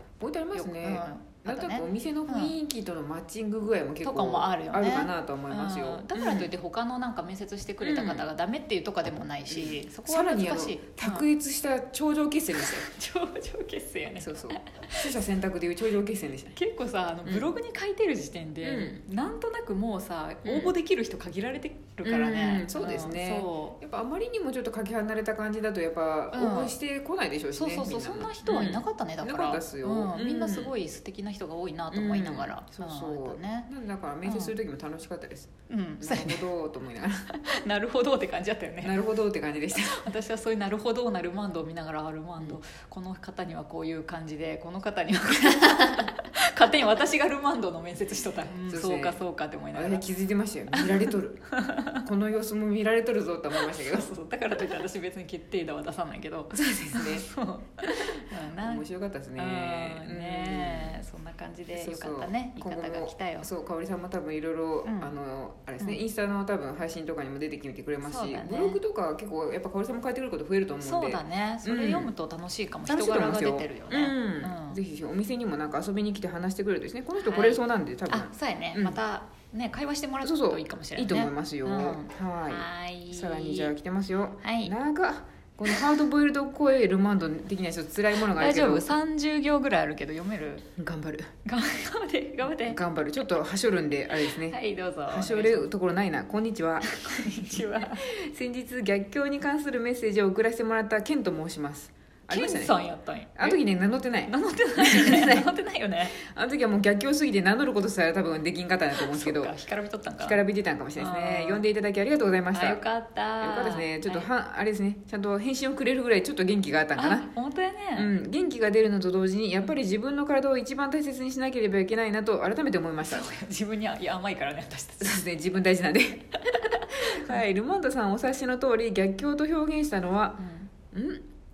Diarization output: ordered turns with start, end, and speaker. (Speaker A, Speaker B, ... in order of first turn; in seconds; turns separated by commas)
Speaker A: 0.2-6.5, Speaker B: 0.6-2.5, Speaker B: 4.0-11.3, Speaker A: 7.8-8.3, Speaker A: 9.5-12.9, Speaker B: 12.8-15.1, Speaker A: 14.2-16.6, Speaker B: 16.6-23.8, Speaker A: 17.2-17.5, Speaker A: 18.6-19.0, Speaker A: 20.4-20.8, Speaker A: 22.0-30.8, Speaker B: 26.3-26.8, Speaker B: 27.5-33.7, Speaker A: 31.9-37.3, Speaker B: 34.2-34.5, Speaker B: 35.7-36.5, Speaker B: 37.3-39.0, Speaker A: 38.8-40.0, Speaker B: 39.8-50.1, Speaker A: 48.7-49.2, Speaker A: 49.7-51.4, Speaker B: 50.7-51.0, Speaker B: 51.5-52.0, Speaker A: 52.0-54.1, Speaker B: 53.7-58.8, Speaker A: 56.5-57.3, Speaker A: 58.6-61.0, Speaker B: 59.4-63.5, Speaker A: 61.7-72.1, Speaker B: 64.8-65.1, Speaker B: 68.0-68.8, Speaker B: 70.8-74.8, Speaker A: 72.9-79.0, Speaker B: 77.2-83.7, Speaker A: 80.2-88.9, Speaker B: 84.4-84.7, Speaker B: 88.3-90.7, Speaker A: 90.8-91.3, Speaker B: 91.5-92.8, Speaker A: 92.5-94.6, Speaker B: 94.3-95.7, Speaker A: 95.1-102.8, Speaker B: 96.9-98.1, Speaker B: 102.3-103.6, Speaker A: 103.4-105.5, Speaker B: 104.3-106.2, Speaker A: 106.1-109.5, Speaker B: 109.0-110.4, Speaker A: 110.2-112.8, Speaker B: 111.0-111.7, Speaker B: 112.5-114.3, Speaker A: 113.4-117.3, Speaker B: 117.0-118.1, Speaker A: 118.0-123.3, Speaker B: 123.0-125.2, Speaker A: 125.0-131.2, Speaker B: 126.5-127.4, Speaker B: 130.4-130.7